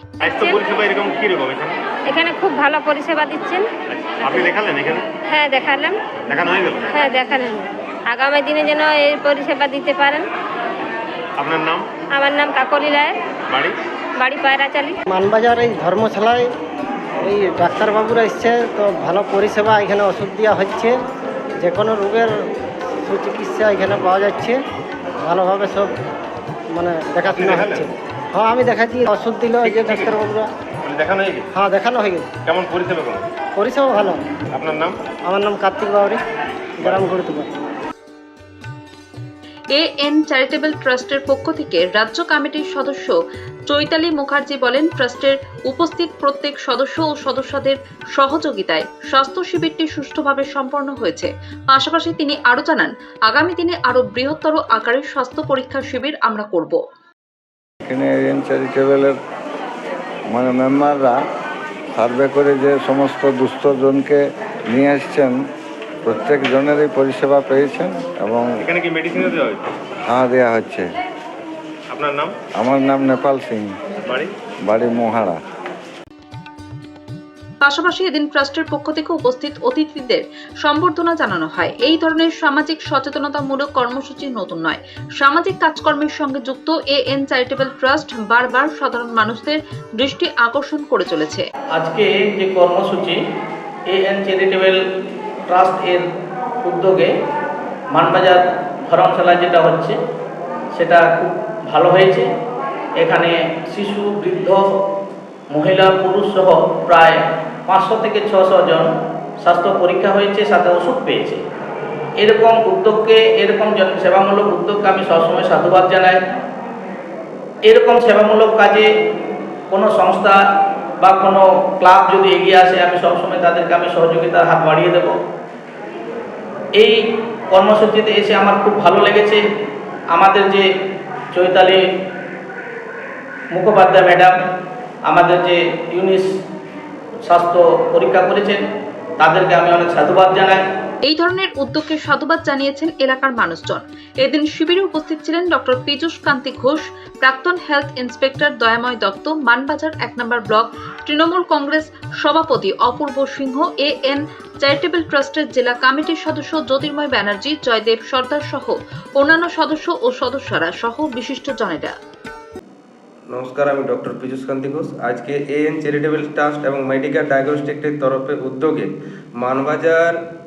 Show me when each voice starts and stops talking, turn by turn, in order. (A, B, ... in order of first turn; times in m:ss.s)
0:00.2-0:01.8 A
0:02.1-0:03.6 B
0:03.9-0:05.0 A
0:05.3-0:05.9 B
0:06.3-0:06.9 A
0:06.9-0:10.2 B
0:11.4-0:11.9 A
0:12.1-0:13.1 B
0:14.2-0:14.9 B
0:15.1-0:16.4 C
0:17.2-0:20.9 C
0:21.6-0:22.3 C
0:23.0-0:24.6 C
0:25.2-0:25.9 C
0:26.7-0:30.5 C
0:27.2-0:27.9 A
0:29.6-0:30.2 A
0:30.8-0:31.5 A
0:31.6-0:32.3 C
0:32.4-0:33.2 A
0:33.6-0:34.2 C
0:34.6-0:34.9 A
0:35.3-0:36.2 C
0:36.8-0:37.1 A
0:36.8-0:37.6 C
0:39.7-0:43.2 D
0:43.7-0:56.8 D
0:57.9-0:59.2 E
1:00.3-1:01.2 E
1:02.0-1:04.2 E
1:04.7-1:05.4 E
1:06.0-1:08.5 E
1:08.6-1:09.6 A
1:10.1-1:10.8 E
1:11.9-1:12.3 A
1:12.6-1:13.7 E
1:14.7-1:15.4 E
1:17.6-1:31.4 D
1:31.8-1:33.2 F
1:33.9-1:34.8 F
1:35.5-1:36.0 F
1:36.6-1:37.1 F
1:37.9-1:40.0 F
1:40.7-1:42.3 F
1:43.0-1:44.6 F
1:45.5-1:51.4 F
1:52.2-1:56.2 F
1:57.7-1:58.8 F
1:59.7-2:00.4 F
2:01.0-2:05.2 F
2:07.5-2:09.4 F
2:10.1-2:10.6 F
2:11.3-2:11.8 F
2:13.5-2:14.4 F
2:15.1-2:16.3 F
2:17.2-2:18.6 F
2:19.2-2:20.6 F
2:21.0-2:41.9 D
2:43.3-2:50.2 G